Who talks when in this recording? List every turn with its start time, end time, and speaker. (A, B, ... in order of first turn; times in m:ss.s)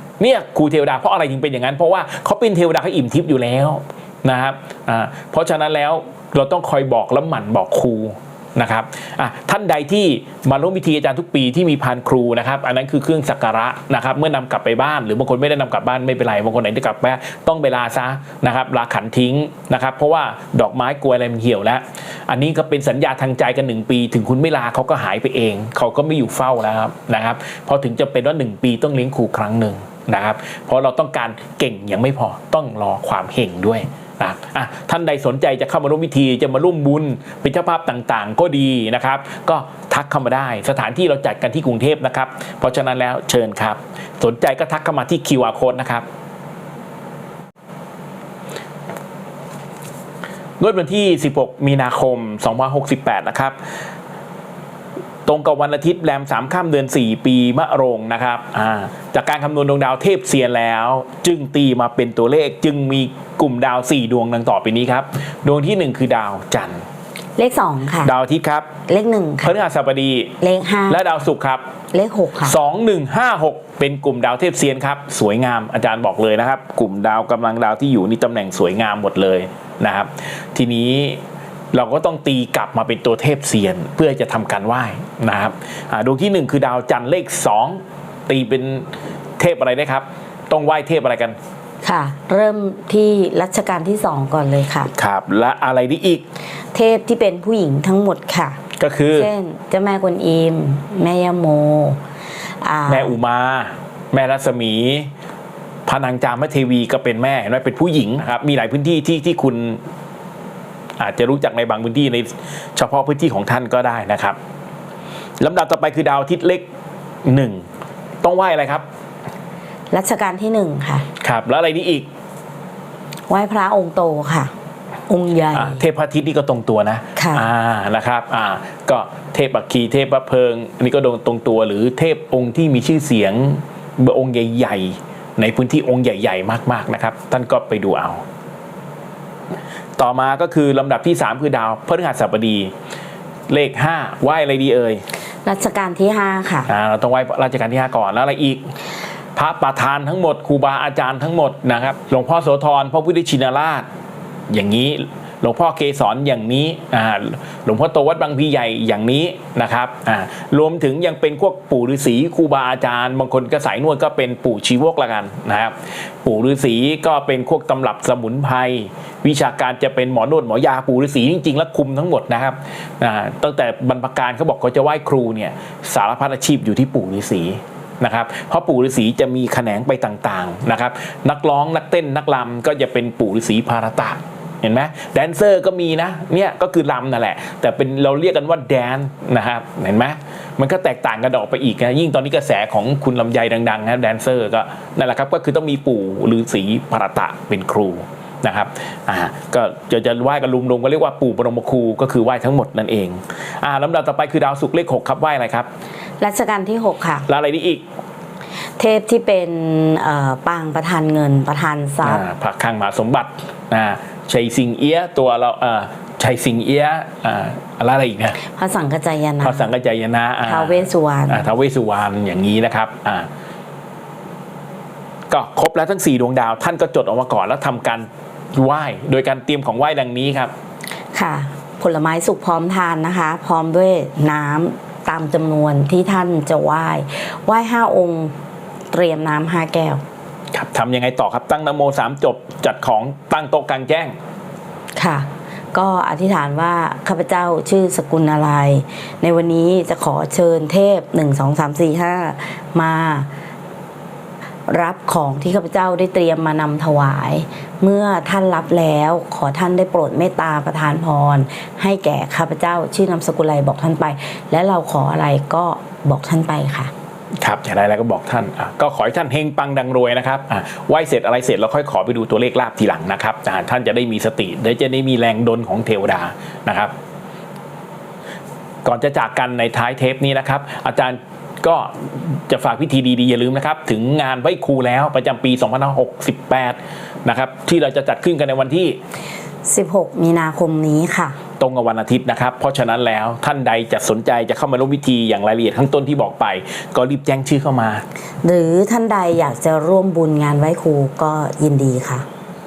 0:00.2-0:46.0 A
0:50.6-0:53.6 A
0:55.3-1:06.8 A
1:07.4-1:08.1 B
1:08.0-1:08.7 A
1:08.9-1:09.6 B
1:09.4-1:10.4 A
1:10.4-1:11.0 B
1:10.9-1:11.6 A
1:11.9-1:12.6 B
1:12.4-1:21.2 A
1:21.7-1:31.4 A
1:31.8-1:34.9 B
1:34.9-1:36.2 A
1:36.7-1:38.6 B
1:38.8-1:39.3 A
1:39.1-1:42.0 B
1:42.6-1:43.2 B
1:42.9-1:45.1 A
1:45.9-1:49.8 A
1:51.0-1:54.4 A
1:55.4-1:56.7 A
1:57.2-1:57.6 A
1:58.2-1:58.8 A
1:59.9-2:01.0 B
2:01.2-2:02.1 A
2:03.3-2:04.5 B
2:05.1-2:05.8 B
2:05.5-2:18.2 A
2:07.2-2:07.4 B
2:20.0-2:22.7 A
2:23.5-2:25.0 A
2:25.4-2:26.7 B
2:26.7-2:28.7 A
2:29.4-2:33.9 A
2:34.5-3:25.7 A
3:26.2-3:27.3 B
3:27.3-3:27.8 A
3:28.8-3:32.2 B
3:32.0-3:38.4 A
3:38.4-3:39.7 B
3:39.4-3:43.3 A
3:40.4-3:41.4 B
3:45.3-3:50.5 A
3:51.1-3:58.3 B
3:58.9-4:00.0 B
4:00.5-4:04.2 A
4:05.0-4:13.3 B
4:14.7-4:26.9 B
4:27.4-4:36.9 A
4:38.8-4:49.0 A
4:49.6-4:51.4 B
4:51.6-4:58.0 A
4:58.4-5:02.3 B